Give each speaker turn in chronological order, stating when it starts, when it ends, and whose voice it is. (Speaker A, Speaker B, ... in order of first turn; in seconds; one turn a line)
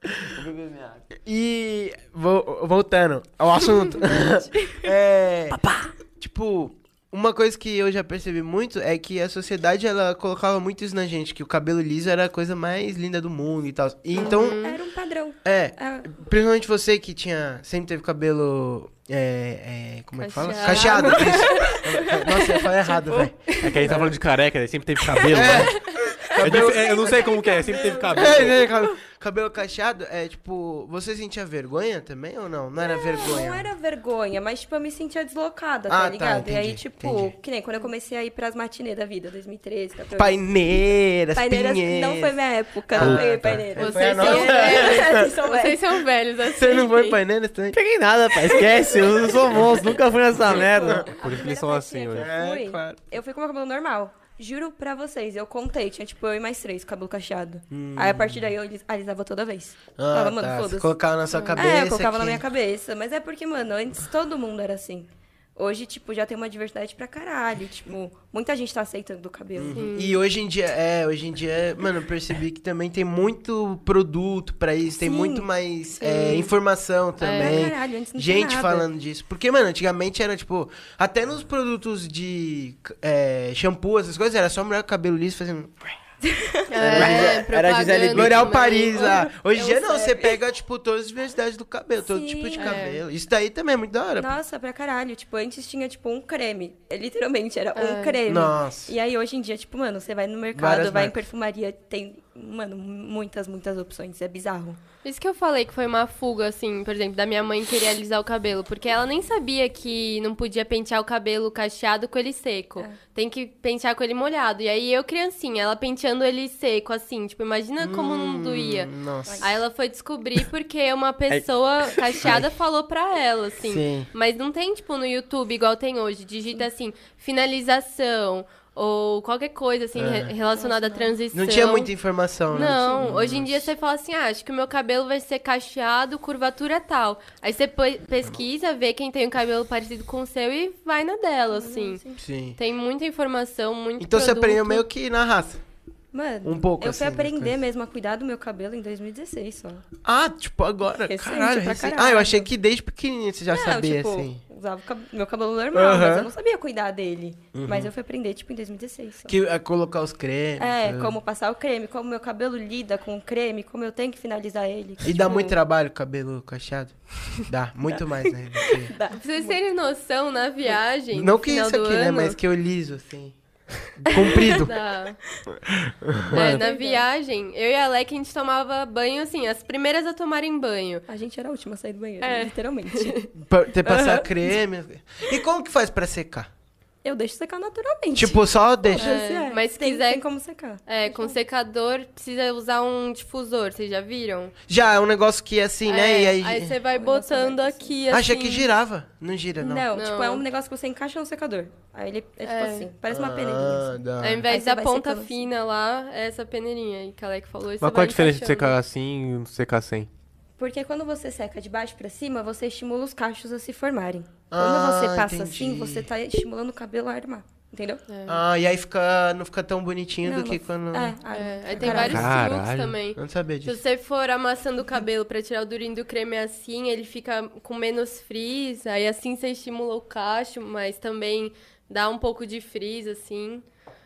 Speaker A: 0.3-1.0
Speaker B: 1.2-5.6
Speaker C: 4.0-4.8
Speaker A: 5.5-5.9
Speaker B: 6.2-14.6
Speaker D: 14.1-14.8
Speaker C: 14.2-16.2
Speaker B: 15.4-24.1
Speaker C: 20.2-23.8
Speaker D: 20.4-21.8
Speaker E: 23.6-25.8
Speaker C: 25.1-25.5
Speaker B: 25.3-27.1
Speaker C: 26.2-28.7
Speaker E: 26.4-28.7
Speaker B: 28.1-33.7
Speaker C: 32.8-40.5
Speaker B: 35.9-37.3
Speaker B: 40.2-42.4
Speaker C: 41.3-45.8
Speaker B: 42.9-45.3
Speaker E: 42.9-43.7
Speaker D: 43.8-47.2
Speaker B: 46.5-47.8
Speaker A: 47.7-51.1
Speaker C: 49.0-49.7
Speaker C: 50.4-61.0
Speaker E: 51.1-52.3
Speaker B: 52.1-53.0
Speaker B: 57.7-58.5
Speaker B: 60.0-62.4
Speaker D: 61.3-61.7
Speaker C: 61.5-69.8
Speaker B: 69.5-85.9
Speaker D: 69.7-70.2
Speaker C: 75.0-75.5
Speaker C: 76.0-76.5
Speaker D: 76.0-76.5
Speaker D: 77.2-77.7
Speaker C: 77.3-78.9
Speaker C: 86.2-86.7
Speaker D: 86.7-89.3
Speaker B: 86.8-87.4
Speaker A: 86.8-88.6
Speaker B: 88.1-94.3
Speaker C: 88.8-90.4
Speaker C: 92.0-92.8
Speaker D: 92.6-93.0
Speaker C: 94.2-104.8
Speaker D: 97.8-98.2
Speaker B: 98.3-98.9
Speaker B: 100.5-101.2
Speaker D: 105.0-131.9
Speaker B: 117.8-119.6
Speaker C: 119.2-119.5
Speaker A: 121.3-122.3
Speaker B: 123.6-124.1
Speaker B: 129.9-130.3
Speaker C: 130.5-131.2
Speaker B: 131.3-133.7
Speaker D: 132.5-142.0
Speaker C: 132.6-133.1
Speaker C: 141.5-142.2
Speaker B: 142.2-142.6
Speaker D: 142.6-144.8
Speaker B: 144.0-145.6
Speaker C: 146.1-149.8
Speaker B: 146.4-147.5
Speaker B: 150.0-154.4
Speaker C: 151.1-152.5
Speaker C: 153.5-159.3
Speaker B: 155.7-156.3
Speaker B: 157.5-157.9
Speaker B: 159.3-161.2
Speaker C: 160.6-165.5
Speaker B: 165.0-168.9
Speaker D: 165.2-165.5
Speaker C: 168.9-169.6
Speaker D: 169.1-172.4
Speaker B: 171.1-173.3
Speaker B: 174.0-174.7
Speaker D: 174.1-175.2
Speaker B: 175.7-176.6
Speaker D: 176.3-181.0
Speaker C: 176.3-177.0
Speaker C: 181.1-183.3
Speaker D: 182.2-183.3
Speaker B: 183.4-186.5
Speaker C: 183.8-184.5
Speaker C: 187.0-191.4
Speaker B: 188.1-189.2
Speaker D: 188.9-190.2
Speaker D: 190.8-194.5
Speaker B: 194.7-196.7
Speaker D: 195.8-198.7
Speaker C: 196.9-197.9
Speaker B: 198.1-199.9
Speaker C: 199.6-205.5
Speaker D: 199.9-200.4
Speaker D: 202.4-202.9
Speaker B: 203.1-204.5
Speaker D: 204.2-208.8
Speaker E: 207.8-210.1
Speaker C: 210.6-218.0
Speaker B: 214.5-216.1
Speaker D: 218.1-218.4
Speaker B: 218.3-221.2
Speaker C: 220.2-222.3
Speaker D: 221.3-233.6
Speaker B: 221.8-222.4
Speaker E: 222.1-223.0
Speaker B: 223.2-223.8